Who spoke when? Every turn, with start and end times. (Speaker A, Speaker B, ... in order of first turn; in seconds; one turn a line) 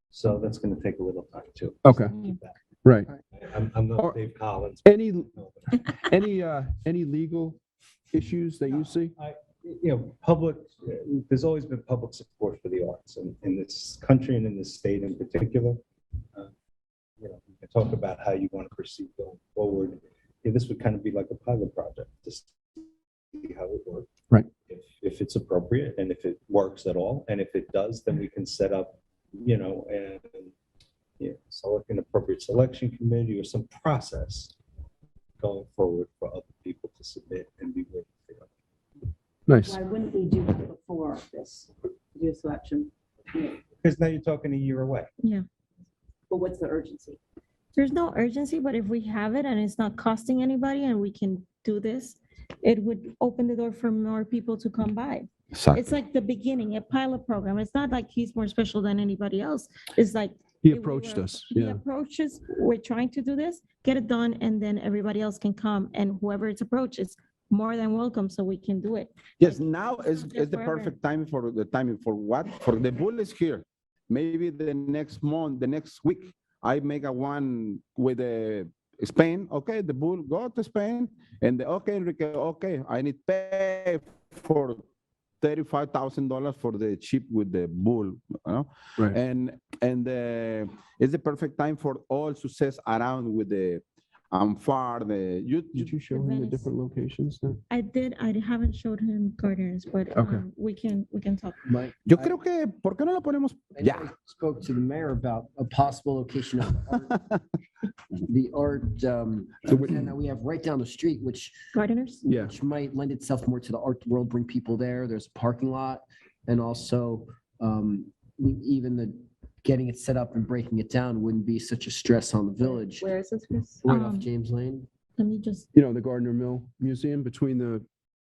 Speaker A: 0.1-2.6
Speaker B: 1.8-2.3
Speaker B: 2.8-3.1
Speaker A: 3.3-6.0
Speaker B: 4.0-4.3
Speaker B: 4.8-5.3
Speaker B: 5.9-7.6
Speaker B: 8.1-9.1
Speaker A: 8.7-15.8
Speaker A: 17.2-22.8
Speaker A: 23.3-24.1
Speaker A: 24.7-30.5
Speaker A: 31.2-34.6
Speaker A: 35.4-38.5
Speaker B: 39.5-39.8
Speaker C: 39.6-43.6
Speaker A: 43.8-45.1
Speaker D: 45.2-45.5
Speaker C: 46.3-47.2
Speaker D: 47.8-71.0
Speaker E: 55.5-55.9
Speaker B: 60.6-61.8
Speaker E: 69.4-84.8
Speaker E: 85.4-96.0
Speaker B: 95.8-97.6
Speaker D: 96.1-96.7
Speaker D: 97.7-101.7
Speaker B: 100.2-100.4
Speaker F: 101.7-102.3
Speaker E: 102.1-104.1
Speaker F: 103.8-107.2
Speaker F: 108.3-111.6
Speaker B: 109.7-110.1
Speaker D: 111.7-112.2
Speaker B: 112.3-112.5
Speaker F: 112.4-123.1
Speaker C: 122.6-123.8
Speaker F: 123.8-124.9
Speaker D: 123.9-124.3
Speaker D: 125.2-125.7
Speaker B: 125.8-127.8